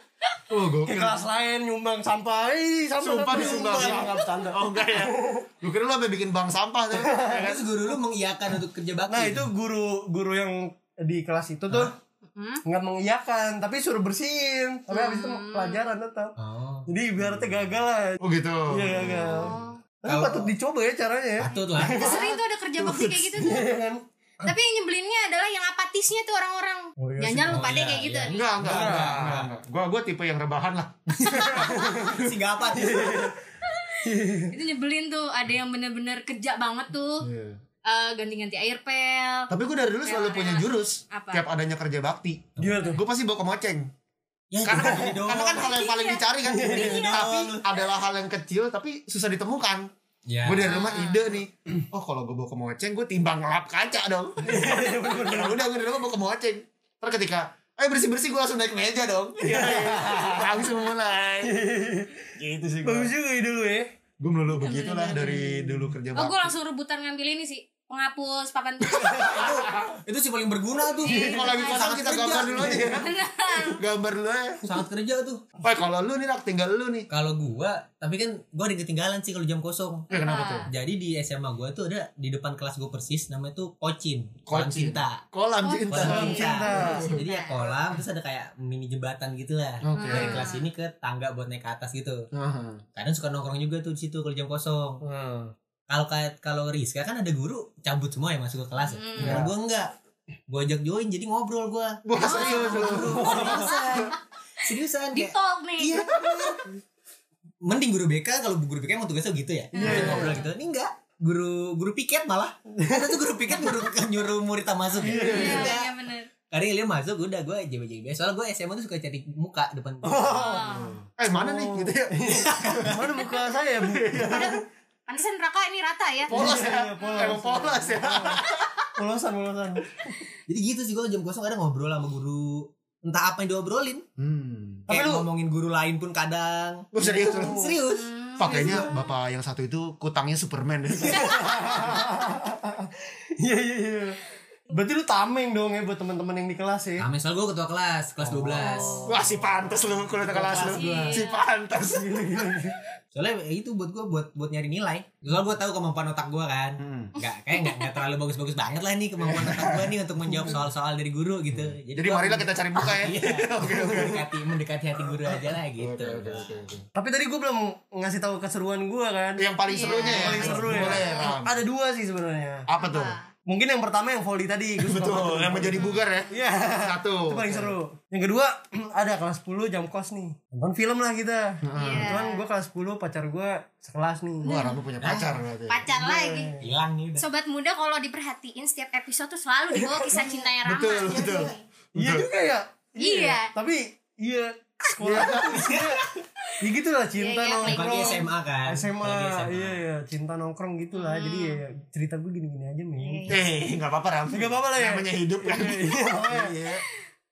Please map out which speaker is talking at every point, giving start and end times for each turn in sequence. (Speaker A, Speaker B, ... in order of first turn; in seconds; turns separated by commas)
Speaker A: 0.5-1.2, Speaker B: 0.8-5.5, Speaker A: 3.0-7.8, Speaker C: 3.3-4.1, Speaker B: 6.9-7.5, Speaker C: 7.3-9.5, Speaker B: 9.1-11.9, Speaker D: 12.3-12.6, Speaker B: 12.7-16.4, Speaker D: 14.9-15.8, Speaker C: 16.4-16.9, Speaker B: 16.9-22.3, Speaker A: 18.2-19.4, Speaker D: 19.0-19.8, Speaker C: 20.1-20.5, Speaker C: 21.4-22.2, Speaker D: 21.6-23.7, Speaker A: 22.1-23.5, Speaker B: 23.4-24.6, Speaker D: 24.4-28.4, Speaker B: 27.0-27.7, Speaker C: 27.5-29.5, Speaker A: 28.3-32.4, Speaker B: 28.6-29.4, Speaker B: 31.3-32.2, Speaker C: 31.7-33.3, Speaker B: 32.7-33.4, Speaker B: 34.0-34.5, Speaker D: 34.5-37.3, Speaker A: 37.2-37.6, Speaker D: 37.9-39.5, Speaker A: 39.5-43.9, Speaker D: 40.0-41.5, Speaker C: 42.6-42.8, Speaker B: 42.6-43.0, Speaker C: 44.5-45.8, Speaker A: 44.6-49.9, Speaker B: 44.8-45.1, Speaker D: 45.6-47.2, Speaker B: 46.4-47.1, Speaker C: 46.6-47.6, Speaker C: 50.3-50.9, Speaker A: 50.4-61.6, Speaker D: 50.6-51.3, Speaker B: 54.4-55.6, Speaker B: 59.5-60.7, Speaker B: 61.4-62.3, Speaker A: 62.4-63.1, Speaker B: 62.8-63.9, Speaker A: 64.2-66.5, Speaker D: 64.6-65.5, Speaker B: 65.2-65.8, Speaker D: 66.2-69.5, Speaker A: 68.9-70.0, Speaker C: 69.2-72.8, Speaker D: 71.0-72.1, Speaker B: 71.1-71.5, Speaker A: 71.1-74.6, Speaker B: 72.5-73.0, Speaker D: 72.8-73.8, Speaker C: 74.6-75.4, Speaker A: 75.6-77.1, Speaker C: 77.1-80.1, Speaker A: 80.1-80.7, Speaker D: 80.1-80.7, Speaker C: 80.7-85.2, Speaker A: 84.5-86.5, Speaker D: 85.6-87.8, Speaker C: 85.9-92.3, Speaker B: 86.0-87.1, Speaker A: 89.8-90.5, Speaker D: 89.9-90.7, Speaker A: 92.3-92.8, Speaker C: 93.0-95.0, Speaker B: 95.0-95.5, Speaker C: 95.9-99.9, Speaker D: 98.8-99.4, Speaker A: 99.2-99.5, Speaker B: 99.2-99.5, Speaker C: 100.5-106.6, Speaker A: 102.0-103.3, Speaker D: 102.2-104.2, Speaker B: 103.0-103.7, Speaker D: 105.1-106.2, Speaker A: 106.0-106.5, Speaker C: 107.6-115.9, Speaker D: 109.7-110.5, Speaker B: 109.8-110.4, Speaker B: 112.7-113.2, Speaker A: 115.0-115.8, Speaker B: 115.0-115.7, Speaker D: 115.3-116.3, Speaker C: 116.5-120.6, Speaker B: 120.0-120.7, Speaker D: 120.3-121.0, Speaker A: 120.7-123.0, Speaker B: 121.3-124.6, Speaker C: 122.3-123.1, Speaker A: 123.8-124.5, Speaker D: 124.3-126.5, Speaker A: 126.3-128.9, Speaker B: 126.3-128.4, Speaker B: 129.0-130.1, Speaker C: 130.5-134.1, Speaker A: 134.2-134.9, Speaker B: 134.9-135.3, Speaker C: 134.9-138.9, Speaker A: 136.9-137.7, Speaker B: 137.0-137.8, Speaker D: 137.9-139.1, Speaker A: 138.4-142.0, Speaker B: 141.0-144.2, Speaker B: 144.7-147.1, Speaker C: 147.0-149.1, Speaker A: 148.2-152.8, Speaker D: 148.6-149.2, Speaker C: 150.3-151.2, Speaker B: 150.3-151.1, Speaker D: 150.6-151.4, Speaker B: 151.9-152.8, Speaker C: 153.1-166.6, Speaker A: 156.8-157.2, Speaker D: 157.5-158.0, Speaker A: 159.2-160.6, Speaker A: 161.5-164.3, Speaker B: 163.6-164.1, Speaker A: 165.5-166.9, Speaker B: 166.9-172.7, Speaker A: 169.4-171.6, Speaker D: 169.7-171.3, Speaker A: 172.7-173.2, Speaker D: 172.8-173.3, Speaker B: 173.5-184.5, Speaker A: 174.8-177.8, Speaker D: 175.8-176.3, Speaker A: 181.6-182.2, Speaker D: 181.8-182.4, Speaker A: 184.4-185.9, Speaker D: 184.4-184.8, Speaker C: 185.0-185.3, Speaker D: 185.7-186.5, Speaker B: 185.9-186.7, Speaker C: 186.6-187.2, Speaker D: 187.2-191.6, Speaker B: 189.7-190.4, Speaker C: 190.1-191.5, Speaker A: 190.6-192.3, Speaker B: 191.9-196.0, Speaker D: 193.0-193.5, Speaker A: 195.0-195.9, Speaker B: 196.6-203.4, Speaker D: 197.2-198.3, Speaker C: 197.6-199.8, Speaker D: 200.9-201.6, Speaker D: 203.0-203.4, Speaker A: 203.3-206.8, Speaker B: 204.3-206.5